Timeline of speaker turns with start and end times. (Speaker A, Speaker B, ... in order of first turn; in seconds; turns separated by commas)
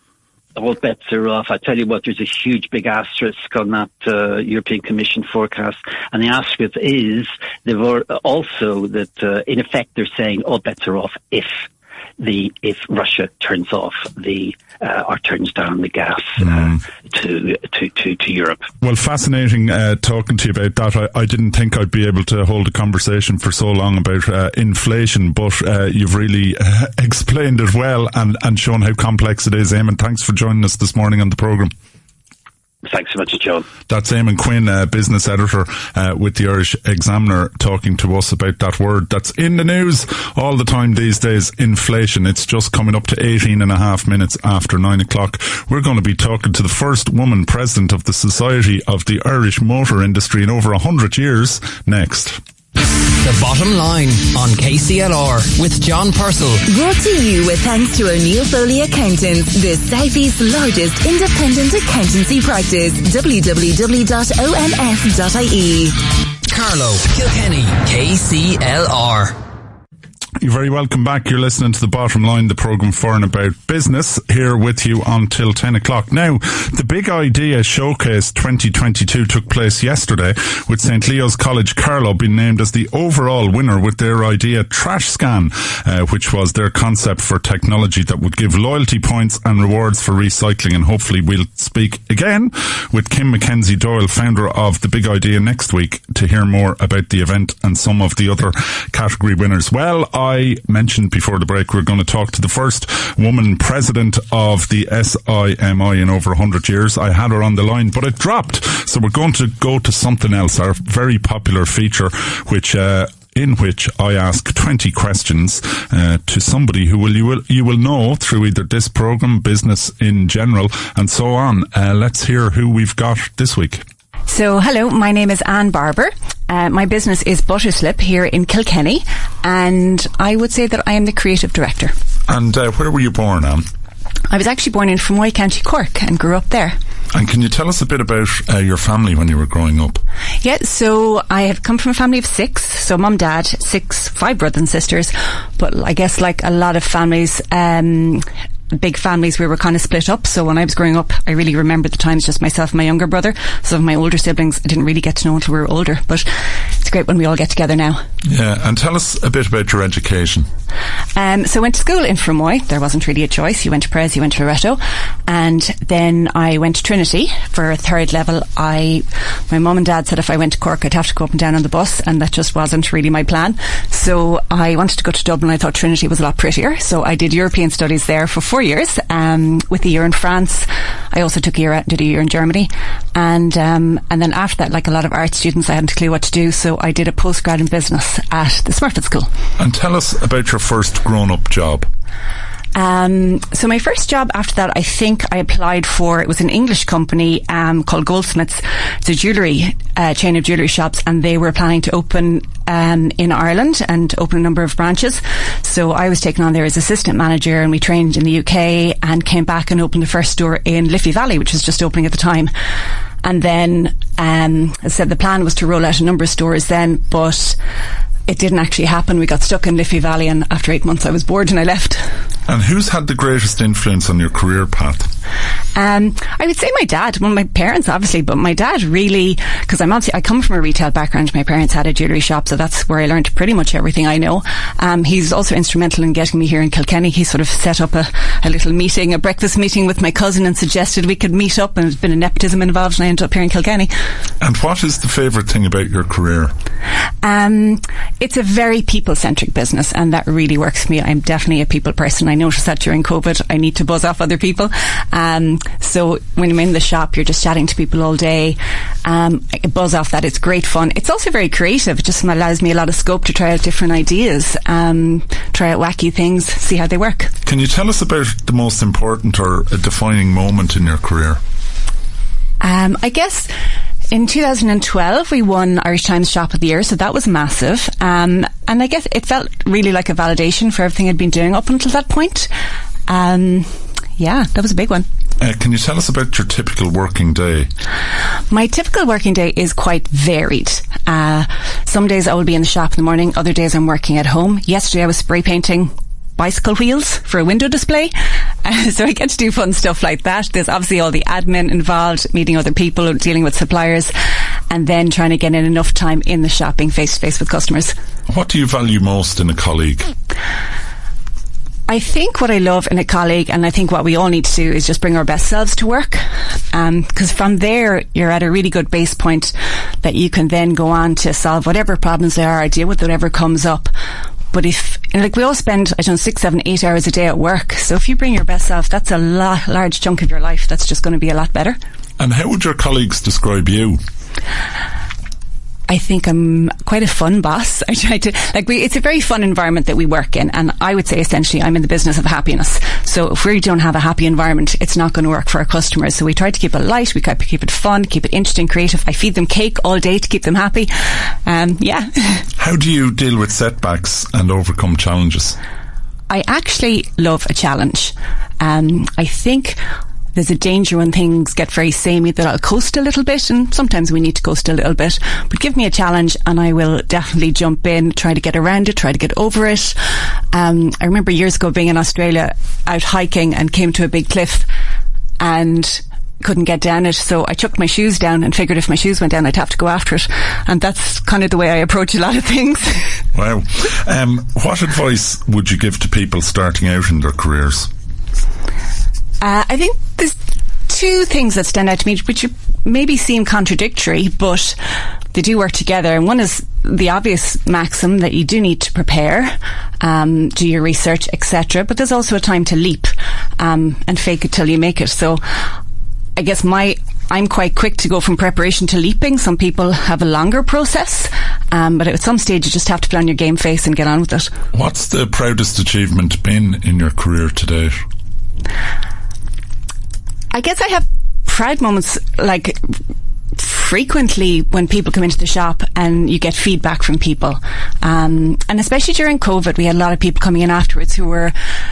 Speaker A: 0.6-11.6, Speaker A: 12.2-18.7, Speaker B: 16.5-16.7, Speaker B: 18.8-31.7, Speaker A: 32.8-33.7, Speaker B: 33.9-52.4, Speaker C: 52.8-56.6, Speaker D: 56.7-66.0, Speaker C: 66.4-69.4, Speaker B: 70.4-123.8, Speaker E: 124.3-131.9, Speaker B: 132.3-133.7, Speaker E: 134.3-136.8, Speaker B: 137.1-140.0, Speaker E: 140.4-158.0, Speaker B: 158.2-160.5, Speaker E: 161.1-189.3, Speaker B: 189.6-191.9, Speaker E: 192.7-212.5, Speaker E: 213.2-217.6, Speaker E: 218.3-222.2, Speaker B: 222.5-225.1, Speaker E: 225.7-243.9, Speaker B: 244.4-246.5, Speaker E: 247.2-267.3, Speaker B: 267.4-271.4, Speaker E: 272.6-273.5, Speaker E: 274.1-282.5, Speaker E: 283.1-285.1, Speaker B: 285.4-287.7, Speaker E: 288.5-298.1, Speaker E: 298.6-304.1, Speaker E: 304.7-307.9, Speaker B: 308.3-310.1, Speaker E: 311.9-323.9, Speaker E: 324.5-331.8, Speaker B: 332.2-334.0, Speaker E: 335.9-352.5, Speaker B: 352.6-355.6, Speaker E: 356.3-359.8, Speaker E: 360.3-374.7, Speaker E: 375.4-383.2, Speaker B: 383.3-387.9, Speaker E: 389.4-394.8, Speaker E: 395.3-405.7, Speaker E: 406.4-414.5, Speaker B: 414.7-418.0, Speaker E: 420.5-423.0, Speaker E: 423.6-431.5